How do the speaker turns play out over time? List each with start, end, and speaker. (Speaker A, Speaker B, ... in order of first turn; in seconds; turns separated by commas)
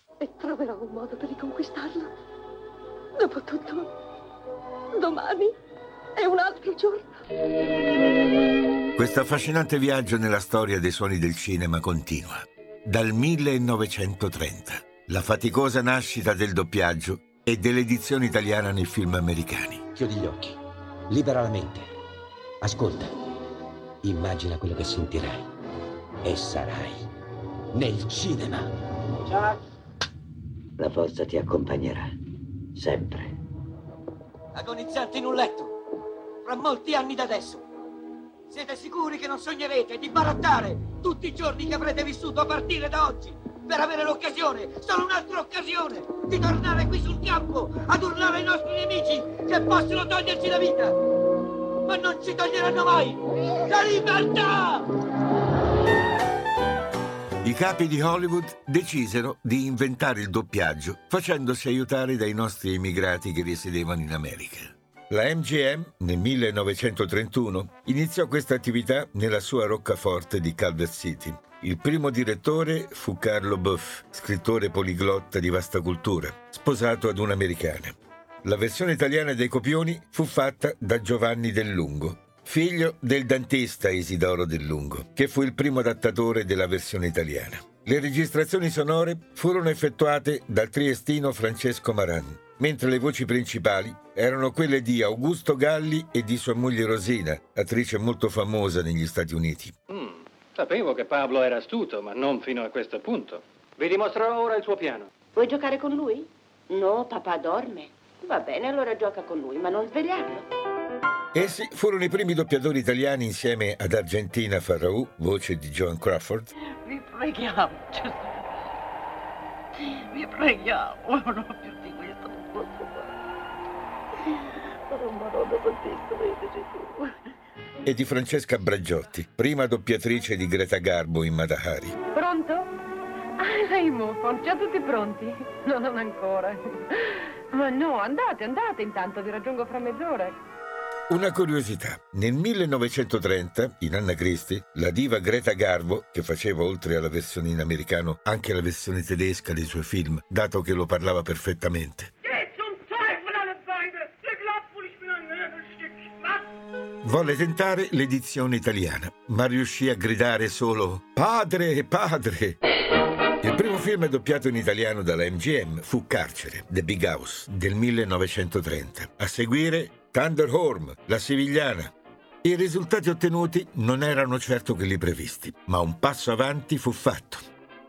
Speaker A: 0.2-2.1, Speaker A: 3.2-3.9, Speaker A: 5.0-5.5, Speaker A: 6.2-7.1, Speaker B: 9.0-19.8, Speaker C: 20.0-20.6, Speaker C: 21.1-21.9, Speaker C: 22.6-23.1, Speaker C: 24.1-25.4, Speaker C: 26.3-26.9, Speaker C: 27.8-28.7, Speaker D: 30.8-32.0, Speaker C: 30.9-31.8, Speaker D: 32.8-33.2, Speaker C: 32.9-33.1, Speaker E: 34.5-35.7, Speaker E: 36.5-37.6, Speaker E: 38.5-51.0, Speaker E: 51.9-54.9, Speaker B: 57.4-99.7, Speaker F: 99.9-105.1, Speaker D: 105.4-110.5, Speaker B: 111.3-116.5, Speaker G: 116.9-118.3, Speaker G: 120.1-123.1, Speaker G: 124.9-127.0, Speaker B: 127.8-132.0, Speaker H: 132.2-132.6, Speaker H: 133.4-136.6, Speaker H: 137.5-140.3, Speaker B: 141.1-152.1, Speaker B: 157.0-162.6, Speaker B: 163.4-177.4